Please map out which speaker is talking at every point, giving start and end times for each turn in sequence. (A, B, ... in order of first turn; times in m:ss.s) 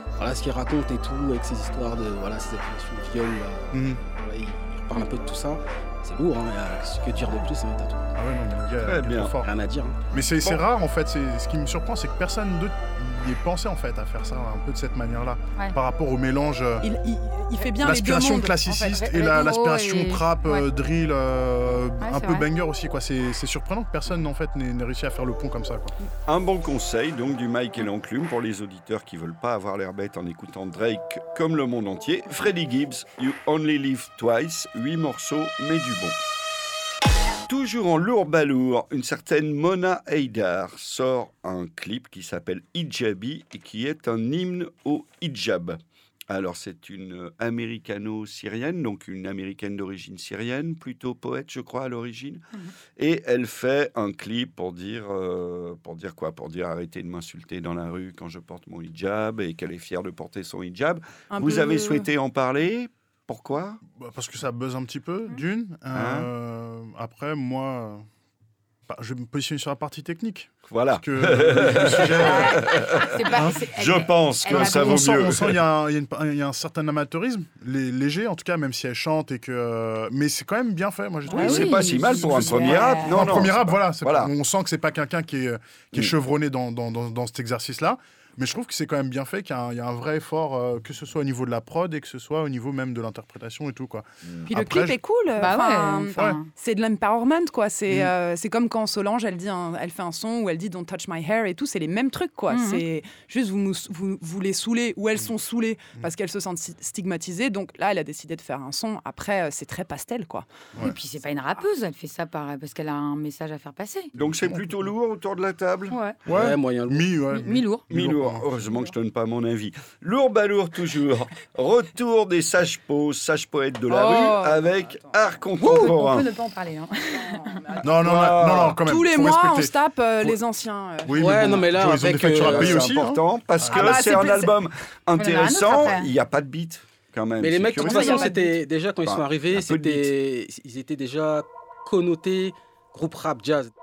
0:00.2-0:08.0 A
0:03.7-0:04.0 B
0:08.2-0:09.5 B
0:08.8-0:09.3 C
0:09.4-0:10.0 A
0:10.1-0:16.9 B
0:16.8-0:19.0 D
0:17.8-0:25.9 B
0:18.8-0:20.6 E
0:22.0-0:22.5 E
0:26.2-0:36.2 C
0:37.5-0:45.8 C
0:46.3-0:52.4 C
0:53.0-1:03.8 C
1:01.3-1:02.1 D
1:03.9-1:08.0 B
1:05.9-1:06.3 C
1:08.9-1:12.7 B
1:10.7-1:15.6 C
1:12.2-1:15.2 E
1:14.4-1:35.0 B
1:21.3-1:23.2 E
1:21.3-1:24.3 C
1:21.4-1:23.0 D
1:34.5-1:50.4 D
1:35.4-1:36.5 E
1:42.5-1:42.8 E
1:50.8-1:54.1 E
1:54.1-1:56.0 C
1:54.2-1:54.8 B
1:55.9-1:56.2 E
1:56.2-1:58.7 B
1:56.3-1:57.1 A
1:57.3-1:57.8 E
1:57.9-2:06.3 C
2:03.9-2:05.1 D
2:05.6-2:07.6 E
2:07.2-2:07.9 D
2:07.8-2:10.4 B
2:08.0-2:08.8 C
2:08.8-2:11.6 D
2:11.0-2:13.9 B
2:11.2-2:12.8 A
2:12.2-2:18.3 C
2:13.7-2:14.5 D
2:15.2-2:16.1 E
2:17.4-2:23.7 A
2:17.8-2:18.4 D
2:19.0-2:20.1 C